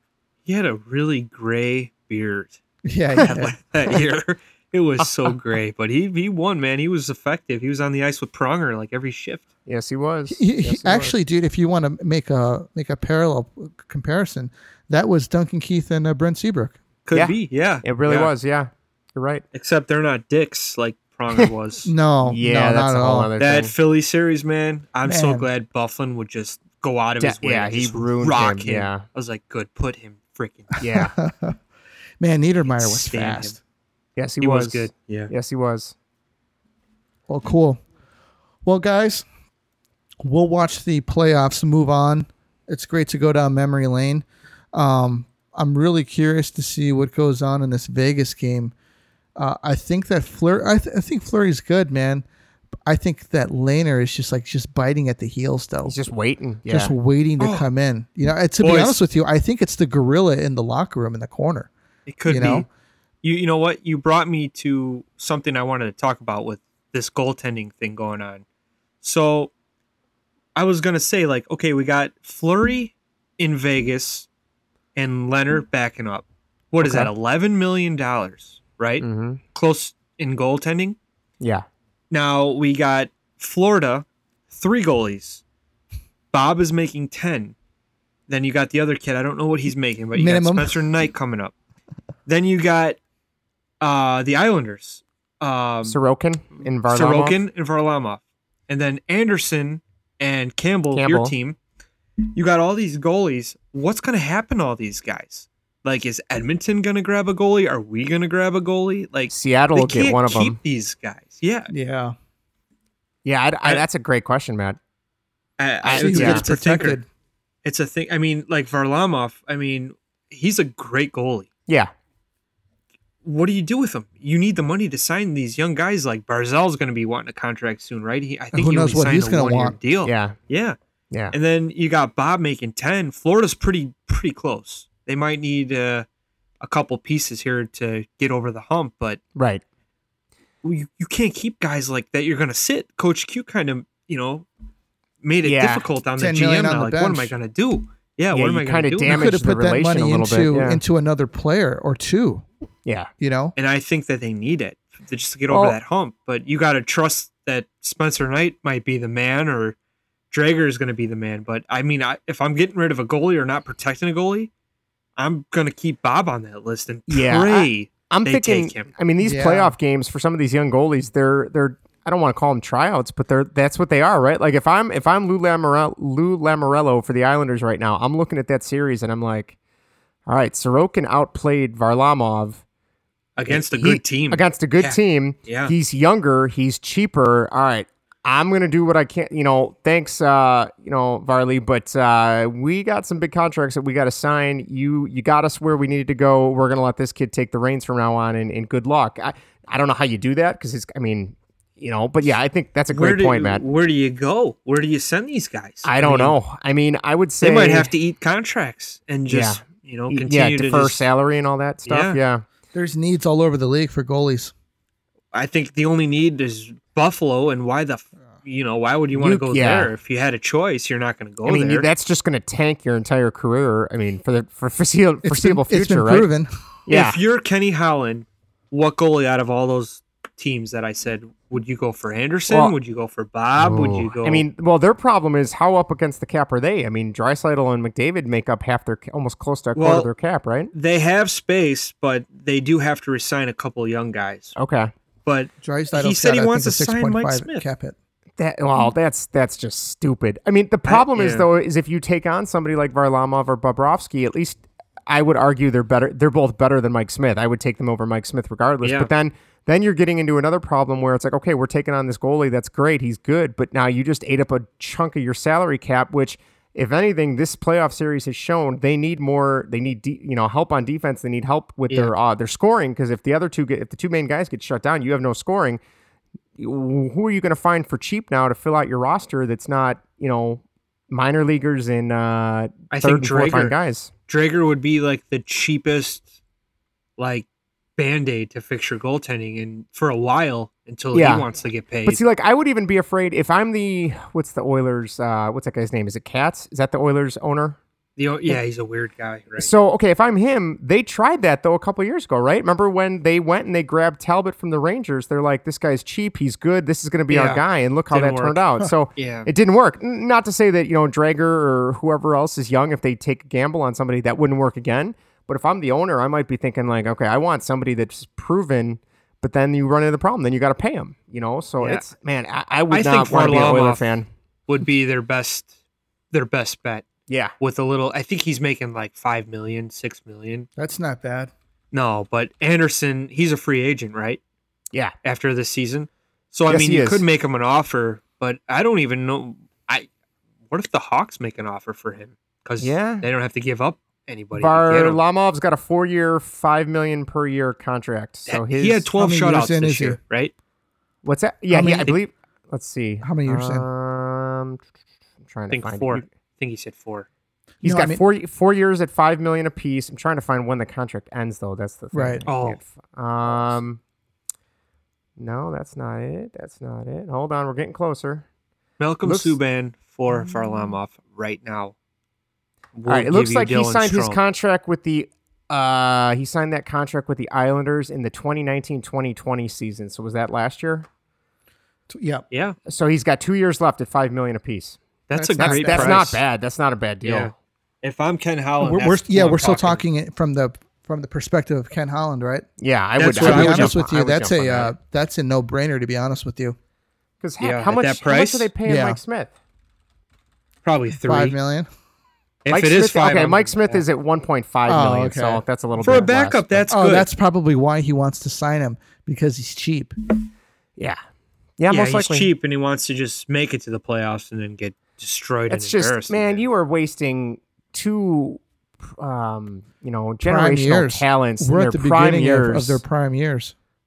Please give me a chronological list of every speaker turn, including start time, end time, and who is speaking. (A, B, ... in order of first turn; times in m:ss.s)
0:00.4-0:02.6 A
0:02.8-0:03.5 B
0:03.2-0:09.5 A
0:09.6-0:11.1 C
0:10.3-0:16.8 B
0:17.0-0:18.3 A
0:17.1-0:19.4 C
0:19.5-0:21.9 A
0:21.8-0:23.3 B
0:22.2-0:23.7 C
0:23.4-0:30.8 A
0:25.0-0:25.5 B
0:27.2-0:29.0 C
0:30.8-0:31.1 C
0:30.8-0:31.6 B
0:32.2-0:33.6 B
0:32.7-0:33.5 A
0:34.2-0:35.9 C
0:34.4-0:35.3 A
0:37.3-0:37.8 B
0:38.6-0:39.2 B
0:40.2-0:48.7 B
0:49.4-0:52.2 B
0:52.8-0:56.0 B
0:55.8-0:56.9 C
0:56.7-1:01.7 B
0:57.4-0:57.6 A
0:58.6-0:59.0 A
1:02.0-1:02.7 A
1:02.2-1:02.7 B
1:03.2-1:08.4 A
1:09.0-1:09.5 A
1:10.5-1:14.3 A
1:15.0-1:21.0 A
1:16.8-1:17.1 C
1:19.0-1:19.4 C
1:21.4-1:21.6 C
1:22.1-1:25.4 A
1:26.3-1:27.6 A
1:28.3-1:31.5 A
1:30.1-1:30.8 B
1:32.2-1:33.0 A
1:33.8-1:36.0 A
1:35.8-1:37.4 C
1:36.9-1:41.6 A
1:40.9-1:41.3 C
1:42.3-1:51.7 A
1:49.3-1:50.6 C
1:51.7-1:52.2 B
1:53.2-1:54.8 C
1:55.6-1:57.0 A
1:55.8-1:56.5 C
1:55.8-1:57.0 B
1:57.6-2:01.5 A
2:03.2-2:10.8 A
2:08.5-2:09.8 B
2:10.0-2:10.4 C
2:11.3-2:16.0 A
2:16.6-2:19.2 A
2:19.3-2:19.6 C
2:20.6-2:24.4 A
2:25.2-2:29.3 A
2:25.4-2:25.9 C
2:26.2-2:27.3 B
2:28.3-2:30.8 C
2:29.0-2:32.4 B
2:32.8-2:33.1 C
2:33.2-2:33.5 B
2:33.6-2:39.8 A
2:35.5-2:35.8 C
2:40.3-2:44.5 A
2:45.2-2:48.9 A
2:47.1-2:59.6 C
2:49.2-2:49.7 B
3:00.3-3:02.6 C
3:03.4-3:05.7 A
3:03.5-3:23.6 C
3:22.9-3:26.4 A
3:25.8-3:27.9 C
3:27.4-3:31.0 A
3:29.3-3:32.4 C
3:31.9-3:32.2 A
3:32.7-3:34.5 B
3:35.3-3:41.9 A
3:39.2-3:39.9 C
3:41.4-3:46.3 C
3:45.2-3:46.5 B
3:46.9-3:47.2 C
3:46.9-3:54.4 A
3:52.5-3:52.7 C
3:53.6-4:00.7 C
3:59.8-4:00.1 A
4:00.7-4:04.5 A
4:04.6-4:04.9 C
4:05.2-4:07.6 A
4:05.6-4:07.9 B
4:08.4-4:35.8 C
4:10.9-4:11.4 A
4:18.8-4:19.1 A
4:36.6-4:44.1 C
4:42.9-4:43.8 A
4:44.3-4:46.2 A
4:47.2-4:47.4 A
4:48.0-4:52.2 A
4:51.1-4:51.5 C
4:52.0-4:57.8 C
4:58.2-4:59.7 A
4:59.6-5:24.3 C
5:07.3-5:09.5 A
5:21.8-5:22.0 A
5:22.9-5:25.7 A
5:26.3-5:27.1 A
5:27.3-5:27.5 C
5:27.6-5:30.7 A
5:30.8-5:31.5 B
5:31.9-5:34.4 A
5:35.2-5:40.1 A
5:36.7-5:37.2 C
5:40.7-5:45.2 A
5:42.8-5:43.2 C
5:44.5-5:49.0 C
5:48.5-5:50.5 A
5:49.1-5:50.2 B
5:51.2-5:54.8 C
5:51.7-5:52.2 B
5:53.2-5:53.9 B
5:55.4-5:56.2 C
5:55.7-5:57.3 A
5:57.8-5:58.2 B
5:57.8-6:04.0 C
6:02.1-6:02.4 B
6:02.5-6:02.8 A
6:05.4-6:08.4 C
6:09.0-6:11.9 A
6:09.2-6:09.6 C
6:12.9-6:14.4 A
6:13.1-6:21.1 C
6:22.1-6:22.4 B
6:22.5-6:22.8 A
6:22.8-6:25.0 C
6:25.3-6:26.4 A
6:25.3-6:26.2 B
6:25.6-6:27.5 C
6:27.2-6:30.0 A
6:28.8-6:32.7 B
6:32.8-6:34.9 C
6:33.2-6:34.0 A
6:33.3-6:36.8 B
6:37.4-6:39.5 C
6:37.6-6:38.7 A
6:38.8-6:39.2 B
6:40.8-6:41.6 A
6:41.2-6:41.9 B
6:42.6-6:44.0 A
6:42.7-6:46.9 C
6:44.9-6:45.6 B
6:46.0-6:47.3 A
6:46.9-6:50.1 B
6:51.8-6:52.5 C
6:51.9-6:56.6 A
6:55.7-7:03.0 C
7:00.4-7:03.7 B